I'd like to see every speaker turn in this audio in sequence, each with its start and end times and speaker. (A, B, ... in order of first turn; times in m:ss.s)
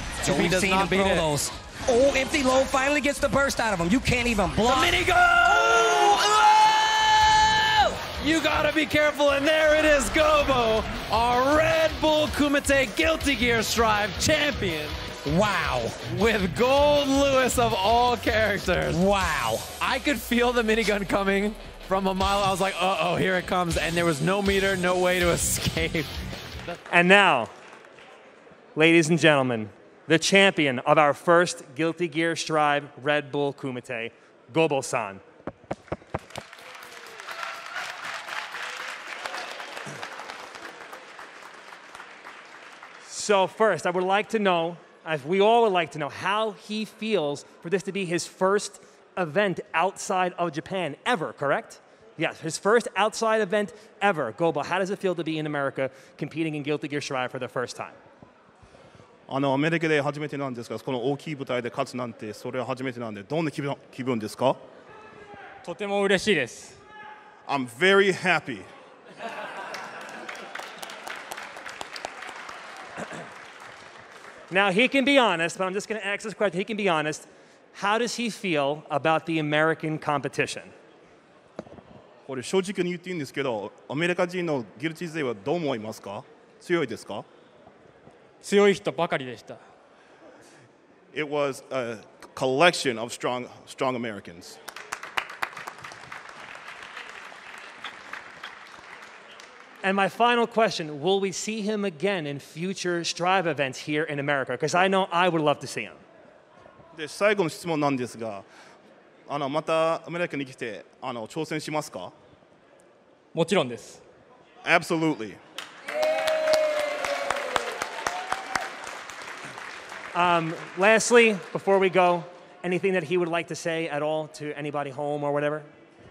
0:00.2-0:01.3 A
0:00.2-0:08.0 B
0:04.6-0:06.3 A
0:08.2-0:15.0 A
0:15.2-0:16.0 B
0:16.1-0:19.0 A
0:18.9-0:19.7 B
0:19.8-0:26.1 A
0:26.9-0:27.5 C
0:28.7-0:35.2 C
0:43.0-0:58.0 C
0:59.3-1:04.6 D
1:05.6-1:06.7 E
1:07.5-1:08.7 D
1:14.5-1:20.7 C
1:22.2-1:27.2 D
1:28.4-1:29.6 E
1:31.1-1:34.6 D
1:39.8-1:46.0 C
1:46.9-1:48.4 D
1:49.3-1:52.1 D
1:53.3-1:54.0 E
1:54.6-1:55.4 D
2:00.1-2:05.7 C